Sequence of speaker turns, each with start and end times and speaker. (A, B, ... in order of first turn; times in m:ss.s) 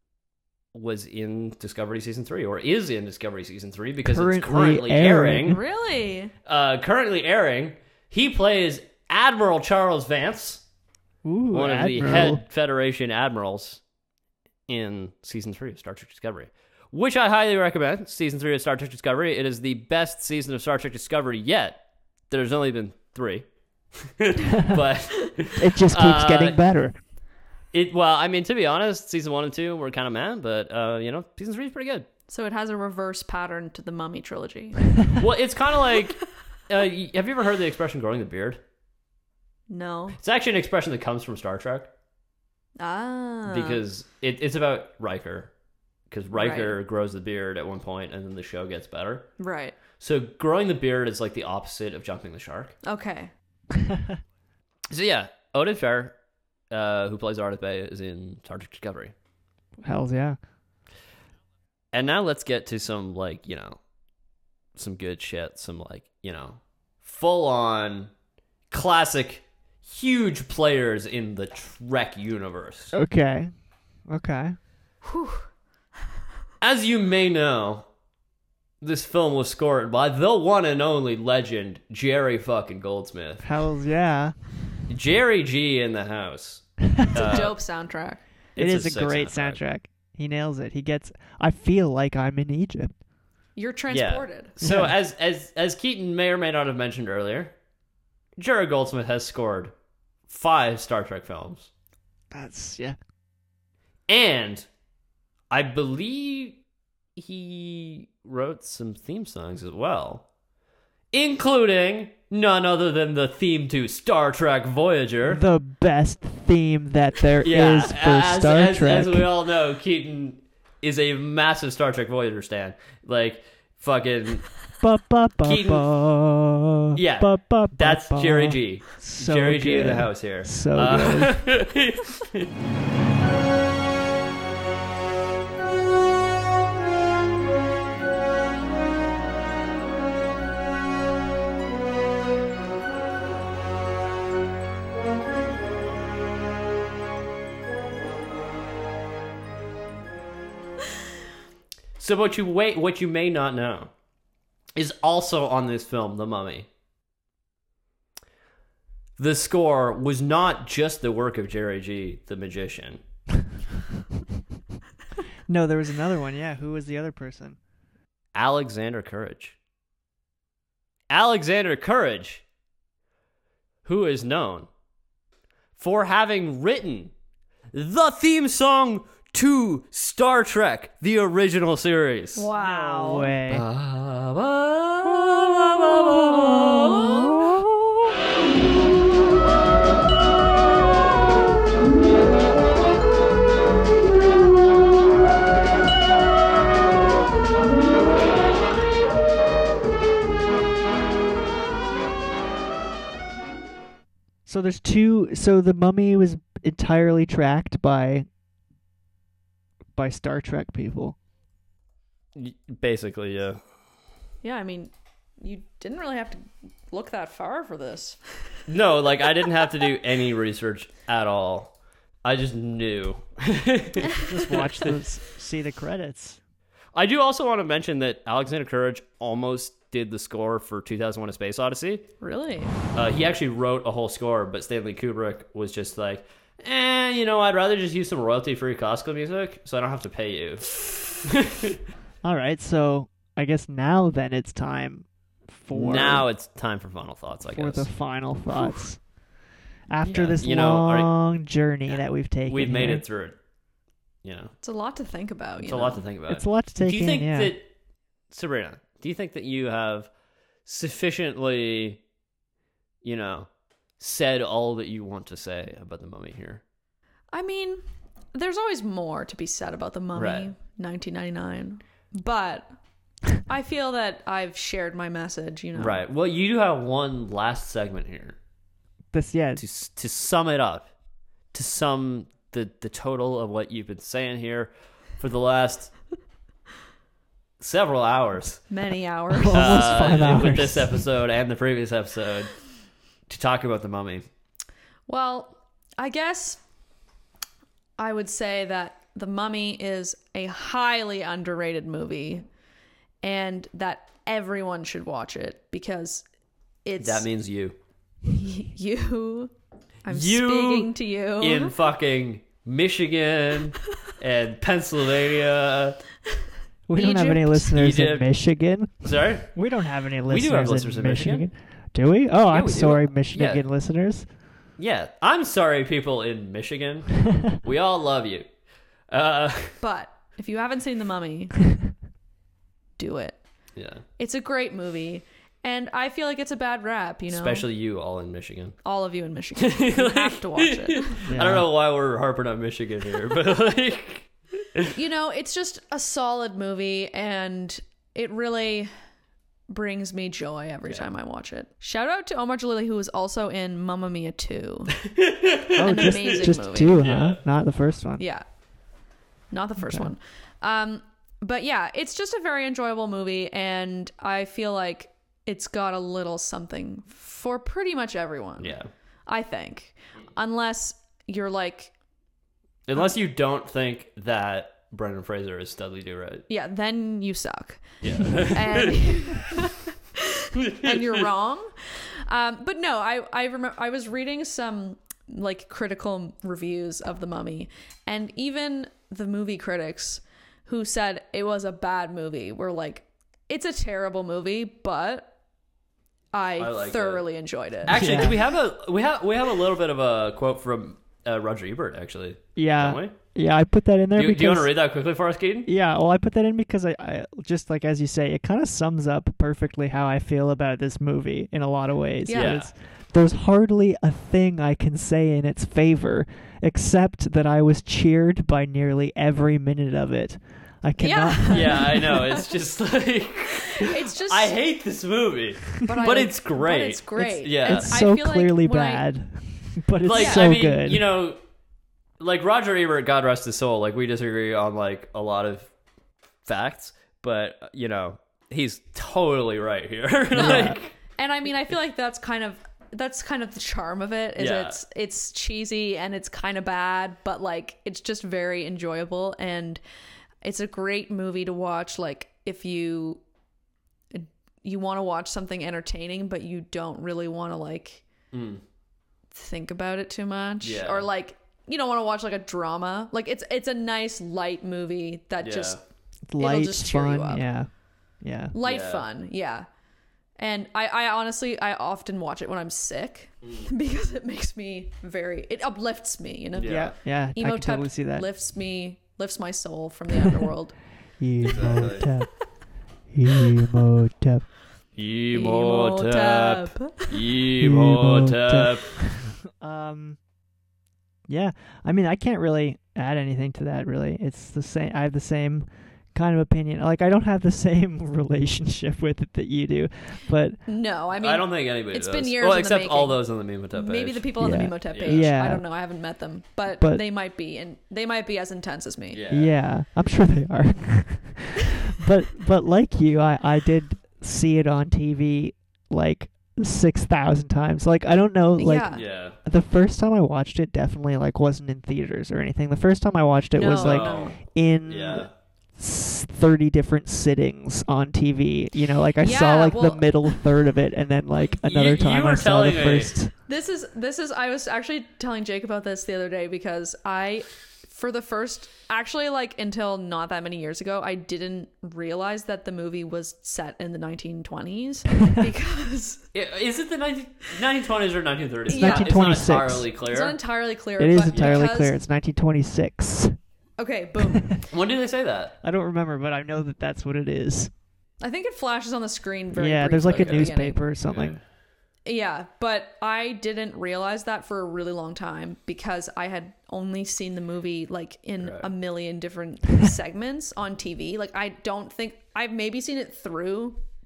0:00.7-0:05.6 A
0:04.0-0:05.6 B
0:05.5-0:06.3 C
0:06.4-0:10.6 A
0:11.2-0:12.4 B
0:11.5-0:13.8 A
0:14.7-0:23.4 A
0:24.0-0:26.6 A
0:25.6-0:27.0 B
0:27.7-0:32.1 A
0:32.3-0:35.2 C
0:35.2-0:38.6 A
0:39.7-0:40.2 C
0:40.2-0:41.9 A
0:42.8-0:43.8 C
0:43.5-0:45.5 A
0:46.1-0:49.3 A
0:46.3-0:46.8 C
0:49.4-0:49.8 C
0:50.0-0:52.8 A
0:52.8-0:53.3 C
0:54.9-0:56.2 A
0:56.7-0:59.1 A
0:59.8-1:00.4 B
1:01.9-1:03.8 A
1:04.8-1:08.1 A
1:08.7-1:12.9 A
1:12.9-1:14.6 B
1:15.0-1:15.4 C
1:16.6-1:17.9 A
1:18.8-1:23.4 A
1:23.4-1:24.3 B
1:24.9-1:27.6 A
1:27.1-1:28.2 C
1:28.6-1:29.6 A
1:28.6-1:33.0 B
1:33.6-1:34.5 C
1:33.9-1:37.5 A
1:34.6-1:35.0 B
1:38.4-1:39.7 A
1:40.3-1:41.7 A
1:42.3-1:43.0 B
1:44.1-1:44.6 A
1:45.5-1:46.6 A
1:47.2-1:50.2 A
1:51.1-1:55.4 A
1:55.2-1:59.3 B
1:57.4-2:04.6 A
2:04.8-2:11.4 B
2:05.4-2:05.8 A
2:06.9-2:12.5 A
2:32.0-2:33.9 A
2:34.8-2:36.7 A
2:39.2-2:43.0 A
2:45.5-2:47.6 B
2:48.3-2:49.6 A
2:51.1-2:52.4 A
2:53.8-2:54.7 A
2:55.8-2:57.1 A
2:57.7-3:02.5 A
3:02.4-3:03.3 C
3:02.6-3:03.6 B
3:03.5-3:07.3 A
3:06.9-3:07.3 C
3:06.9-3:08.1 B
3:24.4-3:28.3 B
3:30.0-3:31.2 B
3:32.3-3:33.6 A
3:34.4-3:38.2 C
3:38.7-3:44.9 A
3:44.2-3:46.4 B
3:46.9-3:52.1 A
3:52.2-3:52.7 C
3:52.9-4:01.8 A
4:02.2-4:06.3 B
4:05.7-4:08.8 A
4:07.5-4:09.1 B
4:09.9-4:13.0 B
4:10.0-4:11.3 A
4:11.9-4:13.4 A
4:14.2-4:14.5 A
4:14.6-4:16.0 C
4:15.6-4:17.7 A
4:16.3-4:17.5 B
4:18.3-4:20.1 A
4:20.6-4:22.0 A
4:23.0-4:26.6 A
4:27.3-4:27.8 C
4:28.3-4:32.7 C
4:30.1-4:30.5 A
4:33.4-4:36.0 C
4:35.7-4:38.4 A
4:39.1-4:39.6 B
4:39.6-4:40.9 A
4:41.5-4:45.9 A
4:47.6-4:48.7 A
4:48.7-4:49.8 C
4:49.3-4:51.0 B
4:49.5-4:52.6 A
4:53.3-4:54.2 A
4:55.1-4:56.6 C
4:58.0-5:02.4 C
5:03.2-5:06.2 C
5:06.8-5:07.2 C
5:07.0-5:07.8 A
5:08.3-5:09.5 C
5:10.0-5:11.7 C
5:10.1-5:16.0 A
5:16.9-5:24.3 B
5:16.9-5:17.8 C
5:17.7-5:18.3 A
5:19.0-5:19.6 A
5:20.3-5:21.5 A
5:22.5-5:23.6 A
5:24.8-5:28.5 A
5:29.1-5:29.8 A
5:29.8-5:31.5 C
5:33.0-5:33.4 C
5:33.8-5:34.0 A
5:34.2-5:37.6 C
5:37.3-5:38.8 A
5:38.8-5:41.2 C
5:39.6-5:44.9 A
5:41.3-5:41.7 B
5:44.9-5:48.9 C
5:49.7-5:55.0 C
5:55.2-5:57.4 A
5:55.7-5:58.2 B
5:55.8-5:57.0 C
5:58.2-5:58.4 C
5:59.5-6:08.8 C
5:59.8-6:00.1 B
6:08.6-6:08.9 A
6:09.3-6:11.9 C
6:12.9-6:16.4 A
6:16.5-6:35.3 C
6:18.0-6:18.9 A
6:20.6-6:21.2 A
6:36.3-6:38.0 C
6:36.6-6:37.2 A
6:37.8-6:43.1 A
6:37.9-6:38.4 B
6:42.6-6:44.7 B
6:44.1-6:45.7 A
6:45.6-7:02.2 B
6:52.2-6:52.6 C
6:52.3-6:52.7 A
7:01.0-7:02.4 C
7:01.5-7:07.9 A
7:03.7-7:04.5 C
7:05.8-7:09.1 C
7:07.6-7:11.0 B
7:10.0-7:11.4 A
7:10.1-7:10.4 C
7:12.2-7:15.7 A
7:16.4-7:20.9 A
7:20.3-7:20.8 B
7:21.2-7:29.8 C
7:24.4-7:24.8 A
7:30.4-7:33.2 C
7:34.1-7:38.0 C
7:38.3-7:38.6 A
7:39.3-7:45.8 C
7:40.6-7:41.1 A
7:45.4-7:45.8 A
7:46.3-7:48.5 B
7:46.4-7:47.5 C
7:48.5-7:49.7 C
7:48.6-7:49.0 A
7:50.4-8:00.8 C
7:56.6-7:57.0 A
7:56.6-7:58.3 B
8:01.2-8:02.5 B
8:01.4-8:02.1 A
8:03.0-8:04.5 B
8:05.0-8:09.0 A
8:05.3-8:07.2 C
8:07.6-8:10.2 B
8:11.3-8:20.6 B
8:20.7-8:29.2 C
8:21.2-8:25.3 A
8:24.4-8:25.7 B
8:26.8-8:27.0 B
8:29.1-8:29.5 A
8:29.3-8:53.3 B
8:38.6-8:39.0 C
8:38.9-8:39.4 A
8:43.5-8:44.4 C
8:43.7-8:45.3 A
8:49.2-8:50.4 C
8:51.6-8:53.2 A
8:53.5-9:06.2 C
9:06.3-9:10.4 A
9:08.7-9:09.3 C
9:08.7-9:09.9 B
9:10.0-9:12.0 C
9:11.0-9:13.4 B
9:11.3-9:11.6 A
9:13.8-9:14.6 C
9:14.7-9:15.6 A
9:15.6-9:17.7 B
9:18.2-9:20.8 C
9:19.5-9:21.4 B
9:20.1-9:20.5 A
9:21.0-9:21.4 A
9:22.0-9:33.8 C
9:28.4-9:28.7 A